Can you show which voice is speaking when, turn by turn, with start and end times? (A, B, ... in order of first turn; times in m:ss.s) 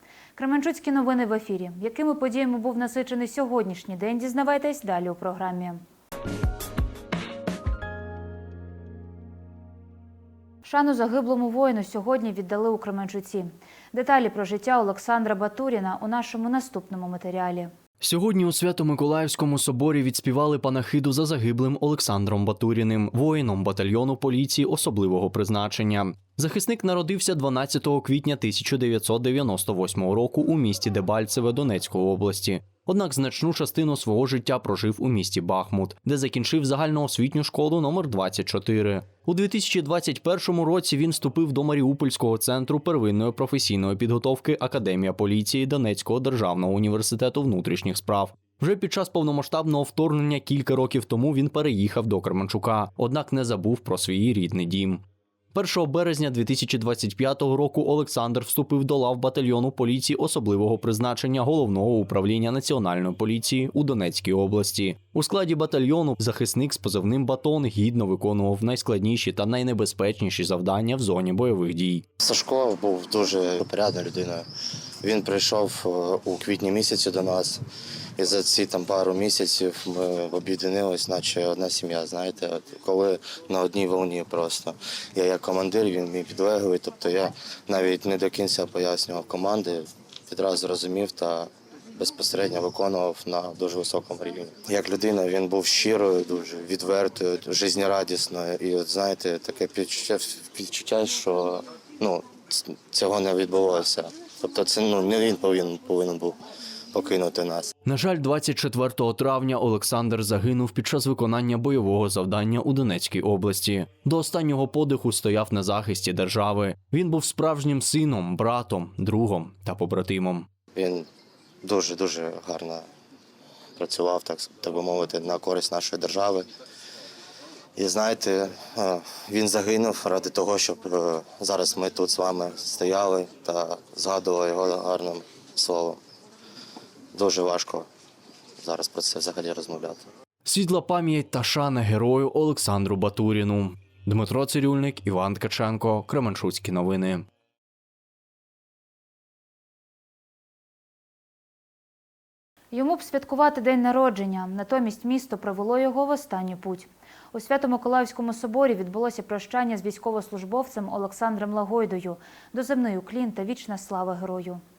0:00.4-0:05.8 A
0:10.6-0:17.7 A
0:18.0-0:55.0 B
0:55.5-1:12.0 B
1:12.2-1:14.4 C
1:15.0-1:17.6 C
1:18.2-1:46.4 C
1:46.9-1:47.7 C
1:47.8-2:00.5 B
2:00.7-2:01.0 C
2:01.6-2:02.8 C
2:03.8-2:06.4 C
2:07.8-2:16.0 C
2:17.1-2:17.9 C
2:18.6-2:20.0 C
2:20.4-2:27.2 B
2:32.7-2:44.6 A